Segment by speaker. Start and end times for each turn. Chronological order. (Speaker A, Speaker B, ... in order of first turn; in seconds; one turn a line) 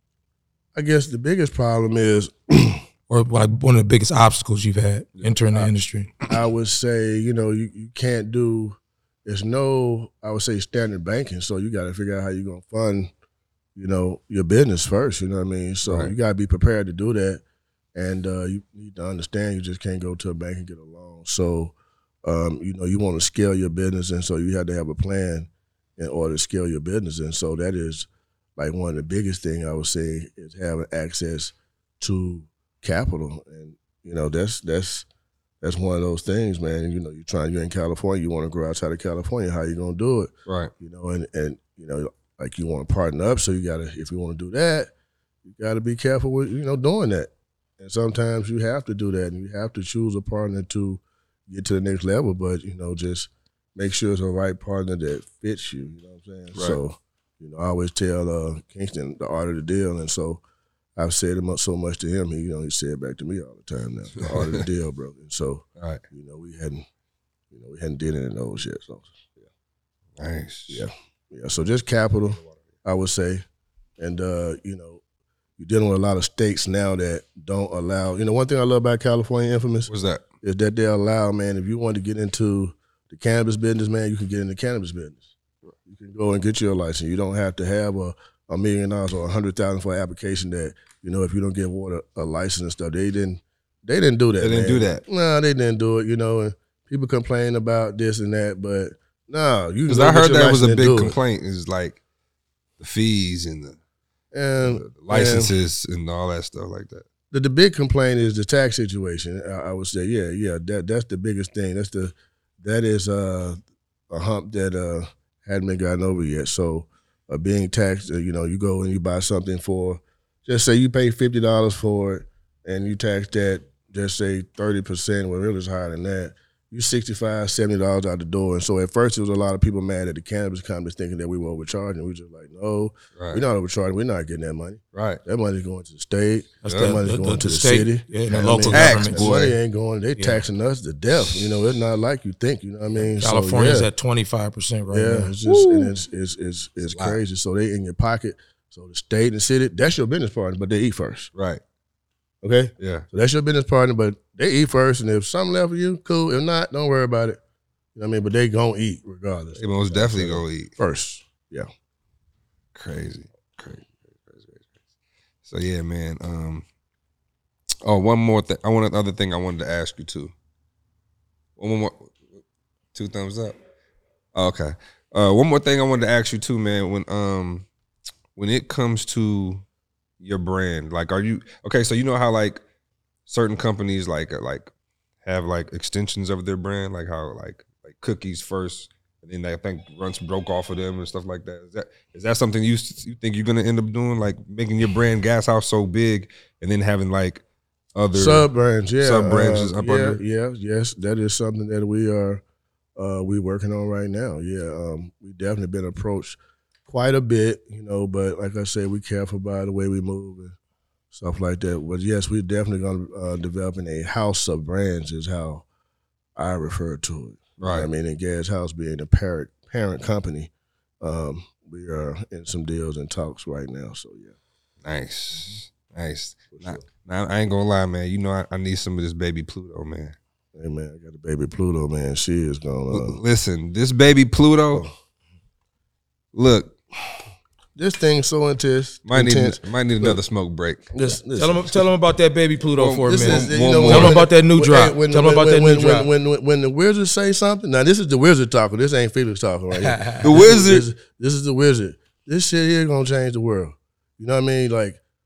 Speaker A: 0.7-2.8
Speaker B: 3.1-6.1
Speaker A: 6.2-13.1
Speaker A: 13.8-17.4
Speaker C: 15.8-16.1
Speaker A: 17.9-35.0
Speaker A: 35.6-44.9
Speaker C: 40.5-40.7
Speaker A: 45.4-60.4
Speaker A: 61.0-66.8
Speaker C: 64.2-64.6
Speaker A: 67.5-69.5
Speaker C: 70.2-70.8
Speaker A: 70.7-73.4
Speaker A: 74.0-75.0
Speaker A: 75.6-79.9
Speaker C: 79.9-80.2
Speaker A: 80.4-85.3
Speaker A: 85.8-101.2
Speaker C: 94.4-95.0
Speaker C: 99.9-102.0
Speaker C: 102.8-103.8
Speaker A: 104.3-105.5
Speaker C: 104.6-107.0
Speaker A: 107.3-113.6
Speaker A: 114.1-143.9
Speaker C: 133.2-133.4
Speaker C: 134.9-135.2
Speaker B: 136.6-139.4
Speaker C: 136.6-137.0
Speaker C: 138.7-139.6
Speaker B: 143.2-145.3
Speaker A: 144.9-151.3
Speaker C: 145.4-145.9
Speaker C: 146.8-147.2
Speaker C: 151.3-151.6
Speaker A: 152.4-157.4
Speaker C: 152.8-153.1
Speaker A: 157.9-161.7
Speaker C: 159.6-160.7
Speaker C: 162.7-164.7
Speaker C: 165.4-166.6
Speaker C: 167.8-170.3
Speaker C: 171.6-172.2
Speaker C: 172.9-173.6
Speaker C: 174.3-177.7
Speaker C: 178.3-179.6
Speaker C: 180.2-182.6
Speaker C: 183.3-184.7
Speaker C: 185.2-197.4
Speaker C: 197.9-198.5
Speaker A: 198.1-202.4
Speaker C: 199.0-200.2
Speaker A: 202.9-210.6
Speaker A: 211.1-215.6
Speaker A: 216.3-220.5
Speaker C: 217.6-217.9
Speaker A: 221.0-224.3
Speaker C: 224.8-230.1
Speaker A: 226.5-226.8
Speaker A: 230.5-233.2
Speaker C: 232.9-234.8
Speaker C: 236.3-236.8
Speaker A: 237.8-240.2
Speaker C: 239.1-240.9
Speaker A: 240.9-241.9
Speaker B: 241.3-246.1
Speaker C: 242.7-244.2
Speaker A: 243.1-255.0
Speaker B: 249.8-250.3
Speaker C: 250.2-250.8